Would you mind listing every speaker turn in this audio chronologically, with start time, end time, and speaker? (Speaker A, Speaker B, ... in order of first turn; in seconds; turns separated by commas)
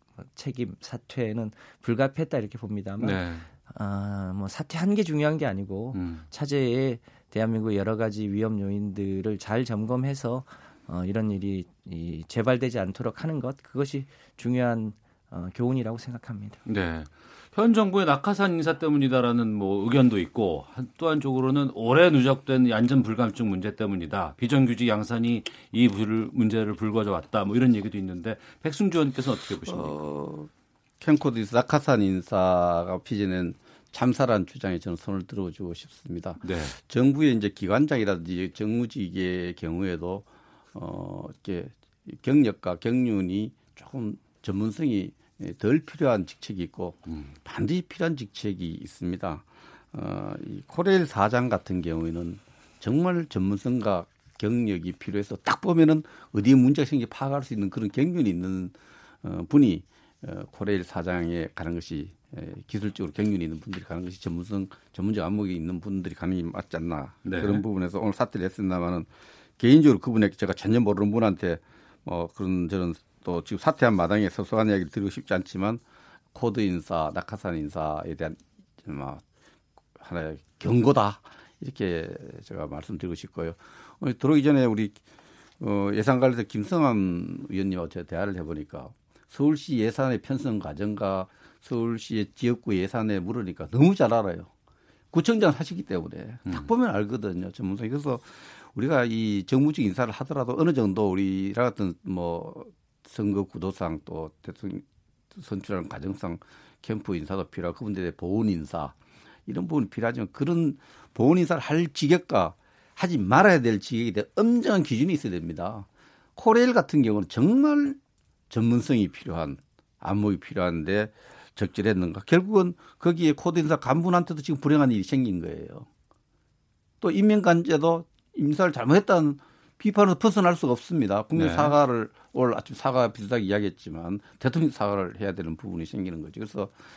Speaker A: 0.2-16.6, Speaker B: 3.0-3.5, Speaker B: 5.9-6.2, Speaker B: 16.6-29.9, Speaker C: 29.7-30.5, Speaker C: 31.0-75.8, Speaker B: 36.4-36.8, Speaker B: 67.2-67.6, Speaker C: 76.3-79.2, Speaker C: 80.0-85.0, Speaker C: 85.6-94.5, Speaker C: 95.1-108.9, Speaker C: 109.5-118.0, Speaker C: 118.5-125.9, Speaker C: 127.0-136.7, Speaker B: 131.3-131.7